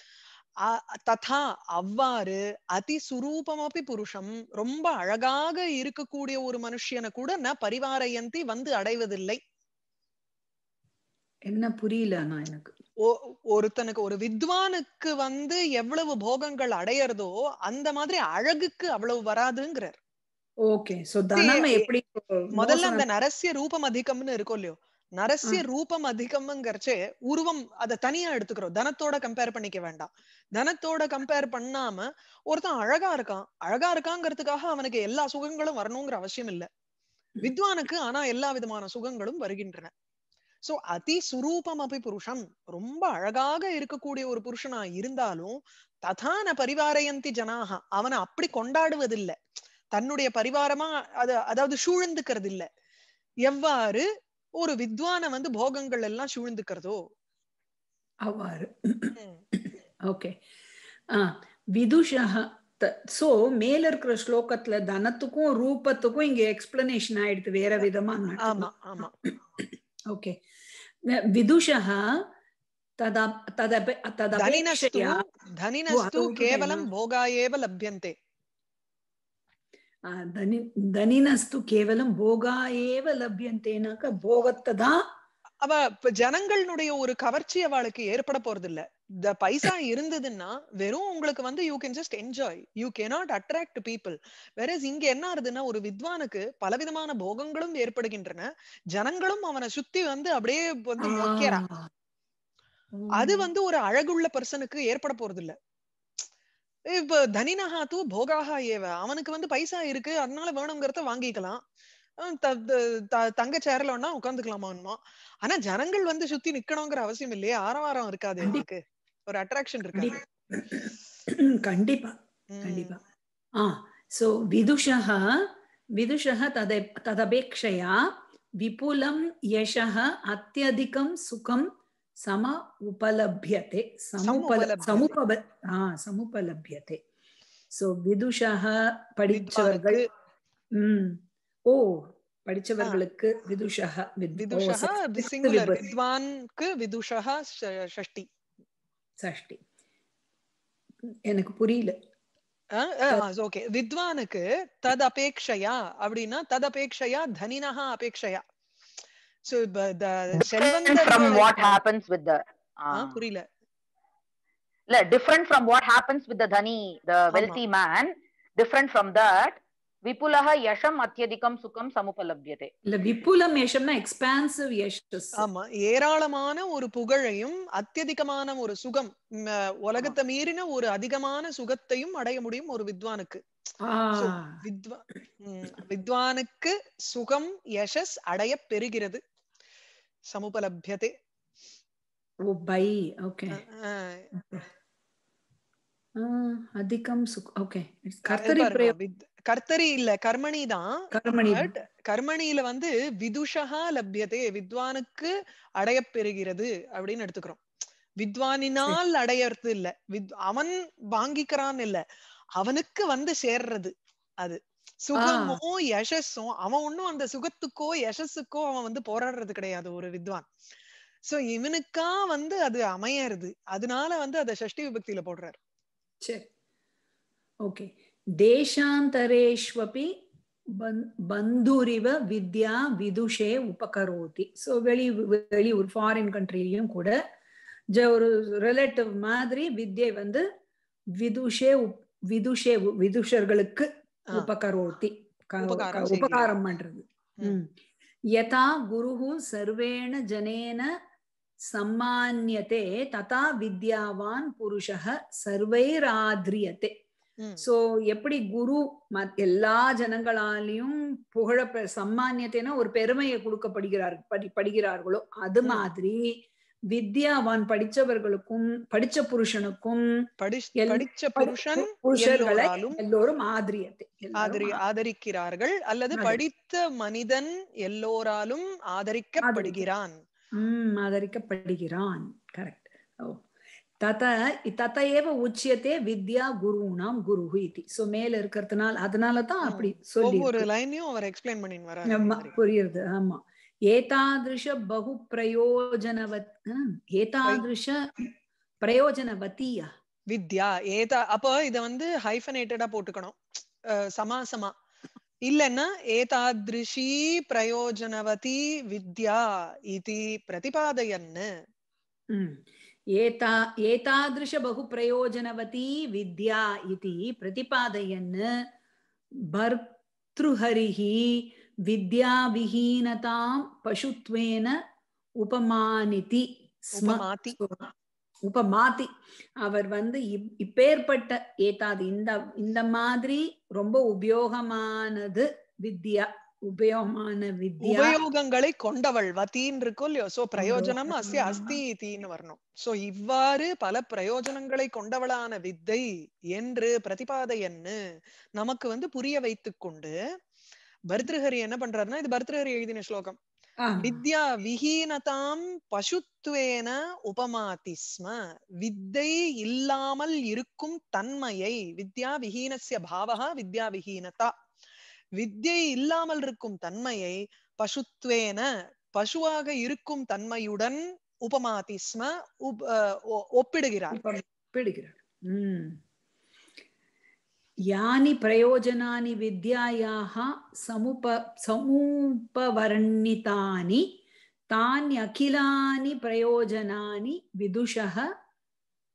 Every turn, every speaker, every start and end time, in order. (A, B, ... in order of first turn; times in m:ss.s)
0:00.6-0:09.4 A
0:11.5-0:12.7 B
0:13.0-0:20.0 A
0:20.7-0:23.1 B
0:21.4-0:21.9 A
0:22.6-0:36.7 A
0:37.4-0:39.9 A
0:40.6-0:49.4 A
0:49.9-0:52.7 A
0:53.4-0:54.1 A
0:54.6-0:57.0 A
0:58.3-1:00.3 B
1:01.1-1:10.4 B
1:08.4-1:09.1 A
1:11.1-1:12.2 B
1:13.0-1:15.2 B
1:14.4-1:18.2 A
1:15.9-1:16.9 B
1:20.1-1:25.0 B
1:25.6-1:41.6 A
1:41.0-1:41.9 B
1:43.0-1:43.5 B
1:43.2-1:45.5 A
1:46.9-1:51.6 A
1:52.2-2:00.2 A
1:59.9-2:03.0 B
2:02.5-2:03.0 A
2:03.6-2:08.0 B
2:08.6-2:11.7 B
2:12.2-2:17.0 B
2:14.2-2:15.2 A
2:17.7-2:20.0 B
2:19.3-2:20.0 A
2:20.8-2:25.9 B
2:24.4-2:28.3 A
2:29.2-2:29.6 B
2:31.3-2:32.0 B
2:32.7-2:38.4 A
2:39.5-2:41.8 A
2:40.4-2:43.2 C
2:42.9-2:43.5 A
2:44.9-2:52.7 C
2:47.3-2:47.6 A
2:52.9-2:55.4 B
2:55.4-3:03.4 A
3:03.8-3:04.6 B
3:04.2-3:09.2 A
3:10.3-3:11.1 A
3:12.5-3:13.6 B
3:13.5-3:14.3 A
3:14.3-3:14.6 B
3:16.2-3:18.9 B
3:18.3-3:27.6 A
3:21.1-3:21.7 B
3:28.2-3:32.0 A
3:32.6-3:40.5 A
3:35.2-3:35.6 B
3:41.3-3:45.6 A
3:46.2-3:46.5 B
3:47.6-3:50.1 B
3:50.7-3:57.2 B
3:57.9-4:00.4 B
4:01.2-4:07.7 B
4:05.6-4:06.6 A
4:08.3-4:10.9 B
4:11.7-4:16.9 B
4:17.4-4:17.6 A
4:17.6-4:26.3 B
4:26.9-4:30.0 B
4:30.4-4:33.0 A
4:30.8-4:34.8 B
4:34.4-4:40.2 A
4:36.1-4:36.4 B
4:39.4-4:39.8 B
4:40.6-4:43.4 B
4:44.0-4:50.7 B
4:49.6-4:52.5 A
4:52.1-4:59.9 B
5:00.3-5:04.7 A
5:05.5-5:11.5 A
5:12.3-5:18.5 B
5:19.5-5:24.8 B
5:25.4-5:27.9 B
5:27.0-5:27.6 A
5:28.4-5:29.1 B
5:29.6-5:38.2 B
5:37.8-5:48.0 A
5:40.6-5:41.8 B
5:48.6-5:50.1 A
5:51.1-5:53.4 A
5:53.8-5:54.2 B
5:54.0-6:04.5 A
6:05.4-6:14.2 A
6:14.1-6:16.0 B
6:17.9-6:24.1 B
6:24.7-6:28.3 B